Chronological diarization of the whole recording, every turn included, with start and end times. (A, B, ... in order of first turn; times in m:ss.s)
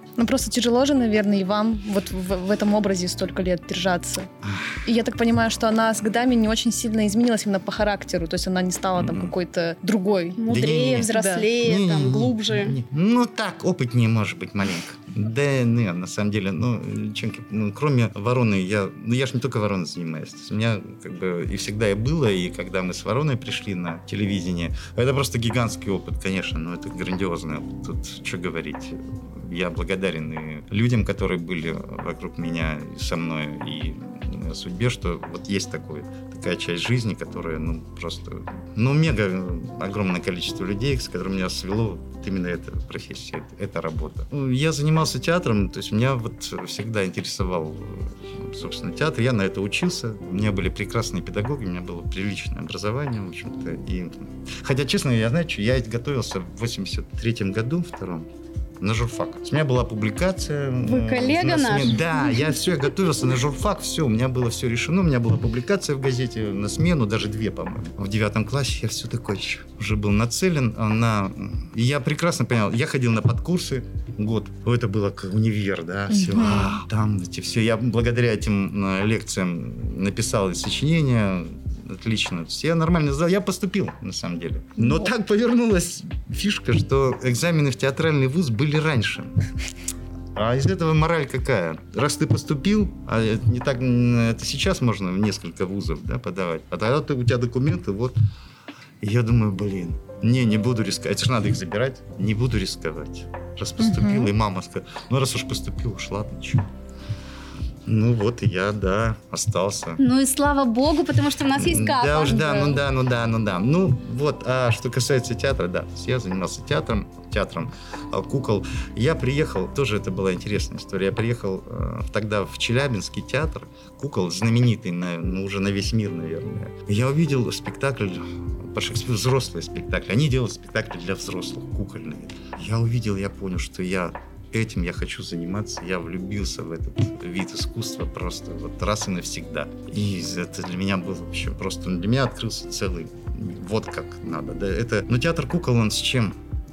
0:00.2-0:04.3 A
0:04.4-0:04.8 B
0:04.8-0:10.4 A
0:09.0-0:09.3 B
0:10.4-0:12.8 C
0:10.5-0:58.3 B
0:11.1-0:11.5 A
0:58.8-1:29.3 B
1:00.8-1:02.1 C
1:16.1-1:16.8 A
1:30.4-1:38.1 B
1:39.0-1:46.7 B
1:43.8-1:44.3 A
1:47.9-1:50.0 B
1:50.0-1:52.8 C
1:51.6-2:26.4 B